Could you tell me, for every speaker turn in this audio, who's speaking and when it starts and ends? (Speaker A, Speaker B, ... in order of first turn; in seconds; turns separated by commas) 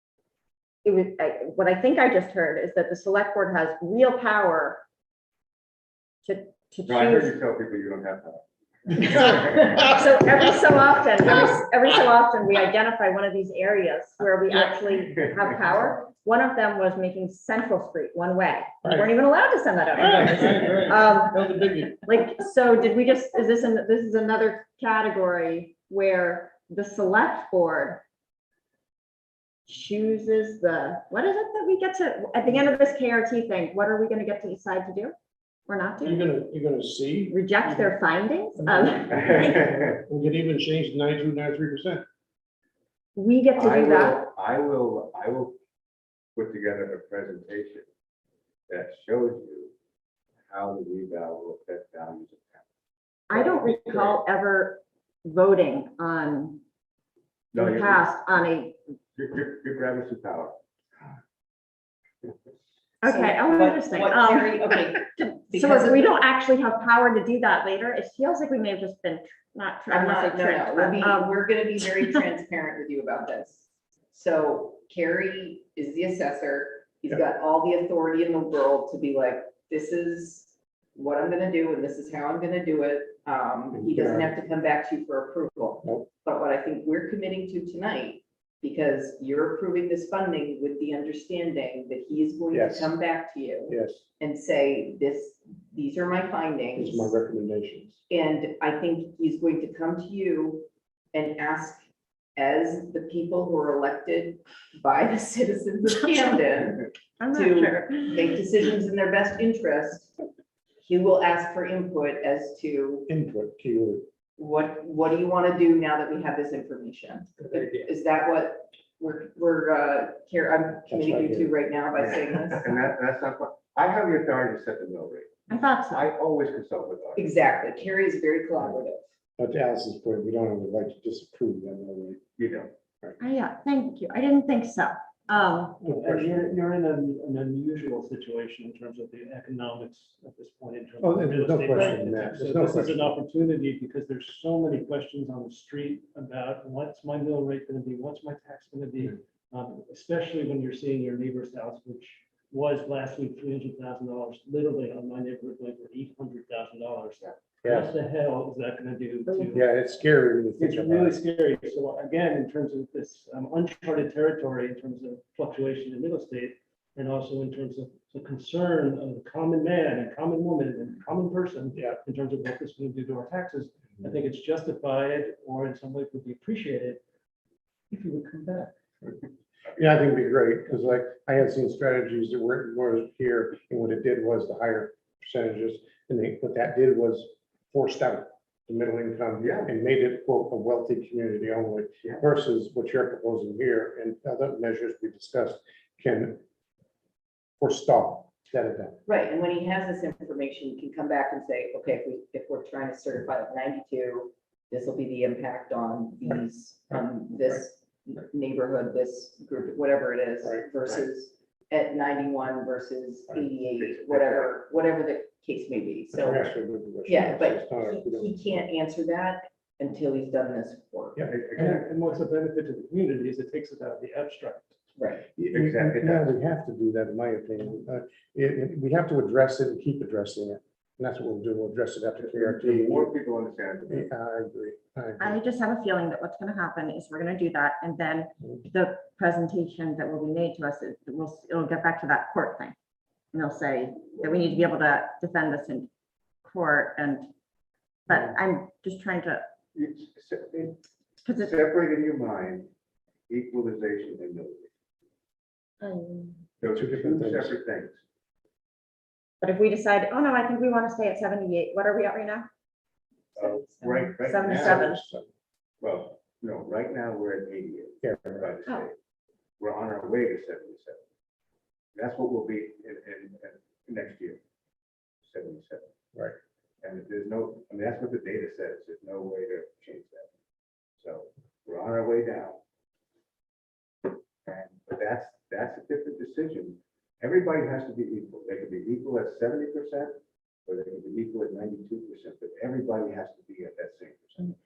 Speaker A: 0.8-4.8, Speaker A: 6.2-7.3, Speaker B: 6.9-9.8, Speaker A: 8.9-28.0, Speaker C: 18.8-19.1, Speaker C: 19.9-22.0, Speaker A: 29.7-35.1, Speaker A: 35.7-36.2, Speaker C: 36.0-37.9, Speaker A: 37.3-39.5, Speaker C: 38.6-42.0, Speaker B: 39.1-40.0, Speaker A: 43.1-44.2, Speaker B: 43.5-45.6, Speaker B: 46.4-47.8, Speaker B: 48.7-49.7, Speaker B: 50.5-52.6, Speaker A: 53.3-56.6, Speaker B: 53.4-54.1, Speaker B: 57.5-58.0, Speaker A: 57.5-58.8, Speaker B: 59.1-60.6, Speaker A: 63.0-71.4, Speaker D: 63.0-66.1, Speaker D: 69.9-97.1, Speaker C: 83.7-84.3, Speaker C: 92.5-92.9, Speaker C: 93.7-94.0, Speaker C: 96.8-98.0, Speaker D: 98.1-101.8, Speaker D: 102.3-110.1, Speaker A: 107.2-108.2, Speaker D: 110.8-113.1, Speaker C: 113.1-114.0, Speaker D: 114.4-122.9, Speaker C: 120.9-121.5, Speaker B: 122.0-127.3, Speaker A: 125.5-126.1, Speaker D: 127.2-129.1, Speaker C: 129.4-132.2, Speaker B: 132.4-132.7, Speaker A: 133.2-135.8, Speaker C: 135.8-136.5, Speaker E: 135.8-159.6, Speaker C: 141.0-143.1, Speaker C: 157.6-157.9, Speaker C: 159.3-161.2, Speaker E: 160.6-177.0, Speaker E: 177.9-178.7, Speaker C: 179.8-196.4, Speaker B: 189.4-189.7, Speaker C: 197.6-199.0, Speaker D: 199.1-216.5, Speaker B: 213.6-214.6, Speaker C: 216.1-218.3, Speaker D: 217.1-221.2, Speaker B: 221.2-221.9, Speaker E: 221.5-224.8, Speaker D: 225.0-225.3, Speaker C: 225.3-233.1, Speaker B: 225.5-226.3, Speaker B: 232.2-234.1, Speaker C: 233.9-235.4, Speaker A: 235.2-242.7, Speaker A: 243.3-245.9, Speaker A: 246.4-247.3, Speaker A: 248.1-249.4, Speaker B: 249.7-250.8, Speaker A: 251.2-251.5, Speaker B: 251.3-252.7, Speaker B: 253.3-254.7, Speaker A: 255.8-256.4, Speaker B: 256.6-258.0, Speaker C: 256.6-257.5, Speaker A: 259.4-262.5, Speaker D: 263.3-264.1, Speaker B: 263.4-264.8, Speaker A: 264.2-265.0, Speaker C: 264.4-265.2, Speaker B: 265.8-268.9, Speaker C: 268.0-268.5, Speaker B: 269.6-271.0, Speaker B: 271.9-274.4, Speaker B: 275.2-275.9, Speaker B: 276.8-280.3, Speaker B: 281.0-282.6, Speaker B: 284.4-294.5